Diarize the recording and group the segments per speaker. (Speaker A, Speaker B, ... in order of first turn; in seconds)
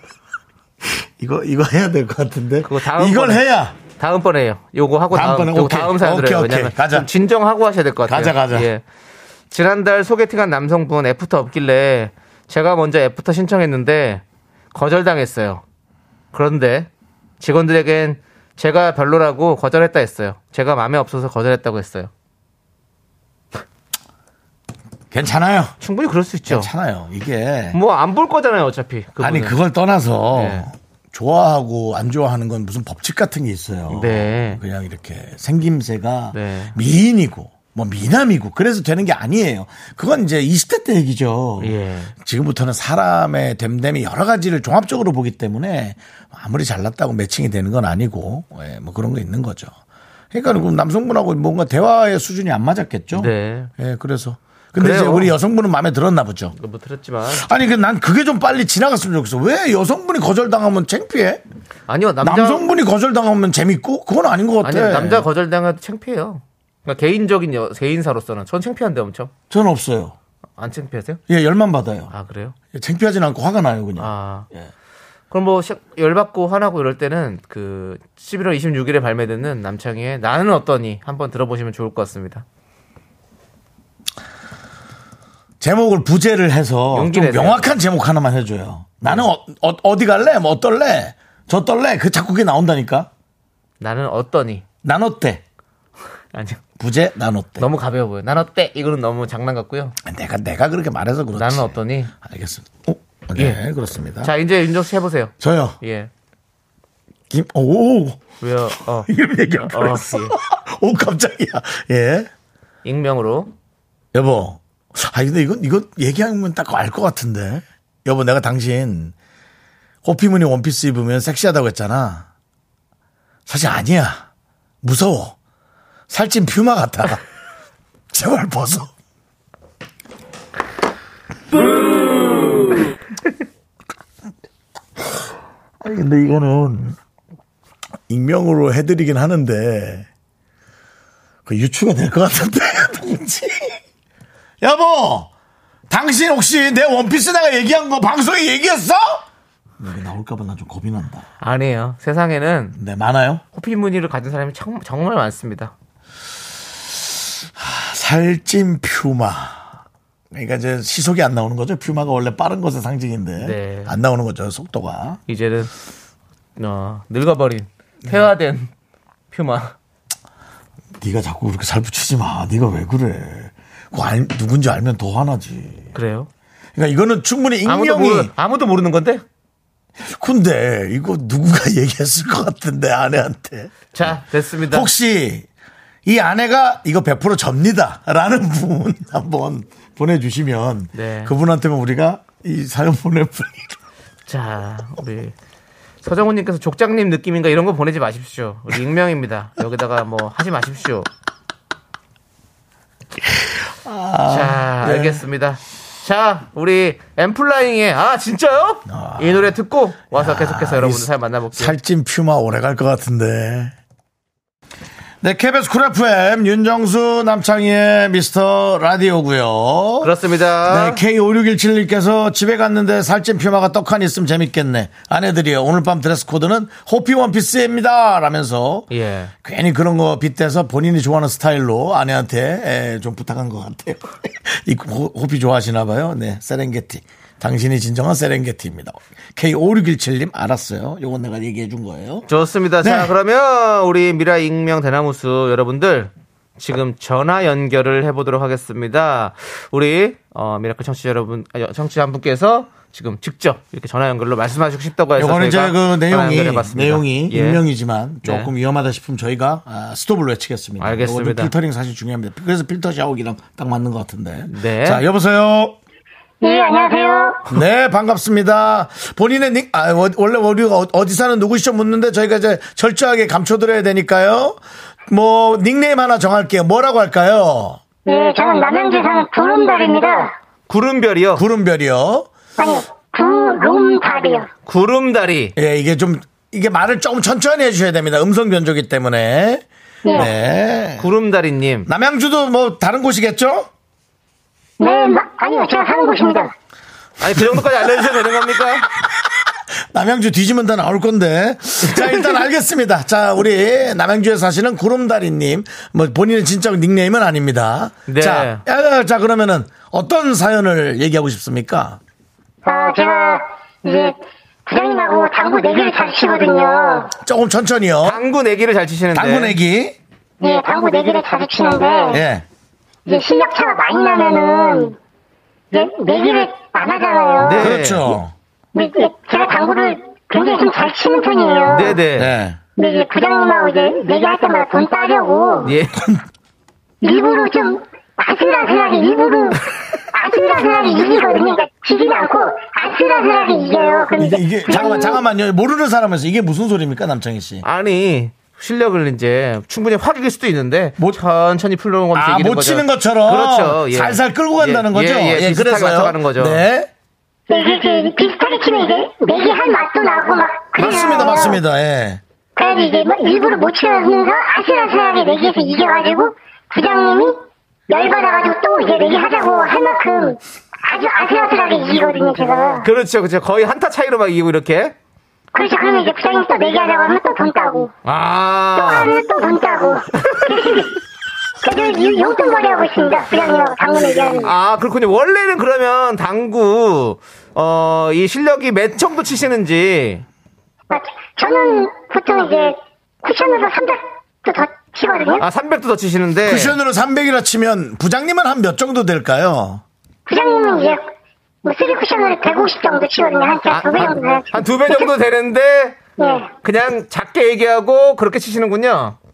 Speaker A: 0.8-3.8, 5.1-7.1, 8.1-8.7, 25.1-25.7, 26.5-27.8, 29.2-49.7, 50.3-56.5, 57.3-61.4, 62.2-65.3, 69.5-70.2, 71.3-72.1, 72.7-74.1, 85.6-93.1, 94.8-95.4, 96.8-97.7, 100.0-104.3, 105.4-105.8, 107.3-108.3, 109.0-112.3, 114.1-119.2, 120.0-122.3, 123.5-124.3, 124.8-125.4, 126.1-127.2, 128.1-128.9, 135.8-137.0, 138.1-140.1, 141.5-143.8, 144.6-145.3, 145.9-149.3, 149.8-151.2, 152.8-153.4, 157.6-159.7, 160.3-165.2, 171.0-175.9, 176.8-178.3, 180.0-185.5, 186.1-193.8, 203.3-205.2, 208.9-209.5, 210.1-213.8, 215.2-220.1, 220.6-228.9, 229.4-242.3, 242.8-243.1, 255.2-265.8, 267.5-277.8, 281.4-282.3, 285.6-291.1, 291.9-293.7, 299.9-312.0, 317.2-318.2, 319.1-320.0, 322.1-322.4, 327.6-328.3, 332.1-332.6, 335.9-336.2, 344.1-347.6, 352.1-356.9, 360.8-362.2, 396.4-399.8
Speaker B: 2.6-8.8, 9.5-15.6, 16.3-16.9, 17.4-22.1, 25.8-26.7, 27.7-29.6, 30.3-30.7, 33.9-34.6, 36.3-36.8, 41.6-42.1, 53.1-53.7, 54.8-55.3, 56.6-57.5, 61.9-62.6, 64.6-69.3, 70.6-71.2, 72.1-72.6, 74.0-74.5, 75.3-82.5, 86.9-87.8, 93.8-94.6, 96.3-96.6, 97.6-100.0, 101.3-102.1, 104.2-106.1, 108.4-109.1, 109.7-110.4, 112.8-113.5, 151.4-152.8, 153.5-155.7, 163.4-163.9, 165.3-165.7, 166.6-168.7, 169.3-169.7, 175.9-176.3, 177.7-179.2, 183.9-184.9, 190.9-191.3, 194.3-195.3, 196.0-201.1, 204.3-211.7, 220.0-221.0, 228.9-229.3, 242.3-257.6, 258.2-258.5, 260.8-261.5, 264.5-265.0, 280.7-281.4, 284.7-285.6, 291.0-291.9, 297.2-298.9, 308.1-308.6, 318.0-319.6, 327.4-328.2, 331.7-332.3, 335.6-336.0, 347.6-356.6, 372.8-374.9, 378.1-379.1, 380.1-380.9, 384.4-390.2, 395.4-396.8, 403.7-406.0, 406.6-409.2
Speaker C: 266.4-267.5, 278.1-280.3, 282.6-284.5, 290.1-290.3, 294.8-296.5, 312.6-314.2, 314.7-317.1, 320.4-322.2, 323.1-325.0, 325.7-327.7, 328.8-332.0, 332.8-335.8, 337.0-345.2, 357.5-361.6, 362.6-372.9, 375.5-377.9, 378.8-380.9, 381.6-384.5, 390.9-395.5, 400.3-401.1, 401.6-405.1, 406.2-406.5